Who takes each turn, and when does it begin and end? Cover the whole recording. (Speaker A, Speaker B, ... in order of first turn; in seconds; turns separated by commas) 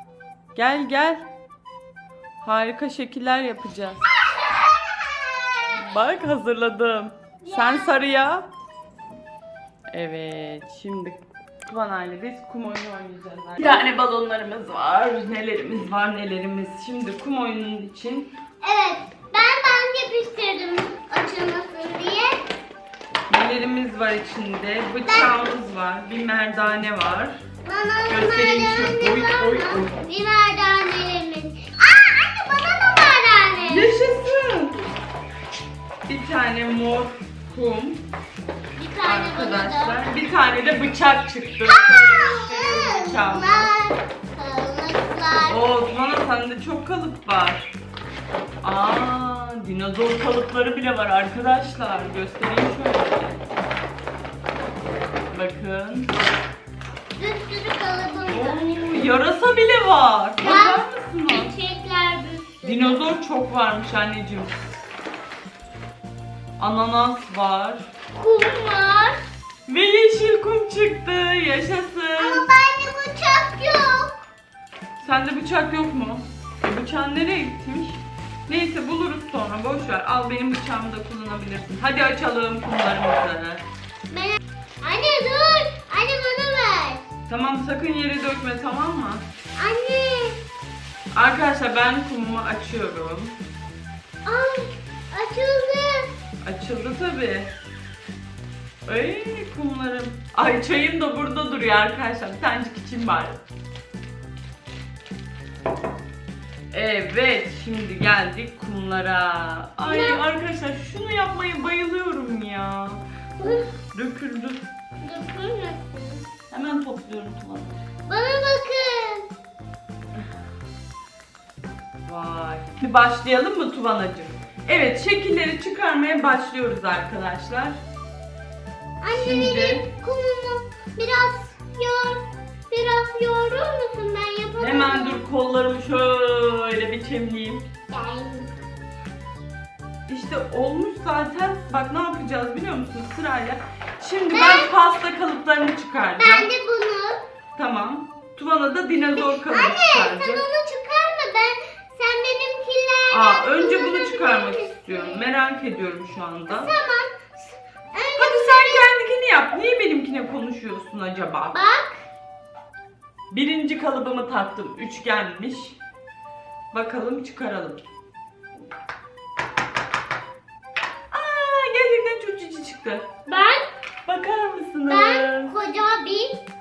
Speaker A: 0.5-1.2, Speaker A: 2.4-4.0, Speaker A: 5.7-8.5, Speaker B: 7.5-7.9, Speaker A: 9.9-18.3, Speaker B: 18.6-22.4, Speaker A: 23.3-27.4, Speaker B: 25.0-25.4, Speaker B: 27.6-33.9, Speaker A: 28.1-29.9, Speaker A: 33.7-34.8, Speaker A: 36.1-38.0, Speaker B: 38.8-40.2, Speaker A: 39.0-43.7, Speaker B: 41.7-45.6, Speaker A: 45.5-47.7, Speaker A: 48.6-53.5, Speaker A: 55.3-56.1, Speaker B: 57.2-58.6, Speaker A: 58.3-61.5, Speaker B: 60.4-63.1, Speaker A: 62.6-64.6, Speaker A: 66.6-67.9, Speaker B: 68.1-69.2, Speaker A: 69.7-72.5, Speaker B: 72.2-74.2, Speaker A: 75.0-83.6, Speaker B: 84.1-87.0, Speaker A: 87.3-89.2, Speaker B: 89.6-90.4, Speaker A: 91.1-93.4, Speaker B: 94.2-96.1, Speaker A: 96.4-97.5, Speaker A: 98.9-103.4, Speaker A: 106.7-114.6, Speaker B: 109.9-110.2, Speaker B: 113.4-113.7, Speaker B: 115.0-116.3, Speaker A: 116.5-117.8, Speaker B: 118.1-119.3, Speaker A: 122.1-127.8, Speaker B: 129.0-135.2, Speaker A: 129.1-129.8, Speaker A: 134.6-137.6, Speaker B: 137.9-138.6, Speaker A: 140.1-146.5, Speaker B: 144.3-144.7, Speaker B: 146.2-147.2, Speaker A: 147.6-150.4, Speaker B: 149.1-155.2, Speaker A: 153.1-156.7, Speaker B: 156.5-158.9, Speaker A: 158.2-161.6, Speaker B: 161.5-162.0, Speaker A: 163.3-165.8, Speaker A: 166.7-167.8, Speaker A: 171.1-173.1, Speaker B: 173.2-173.7, Speaker A: 174.1-175.5, Speaker B: 174.9-176.4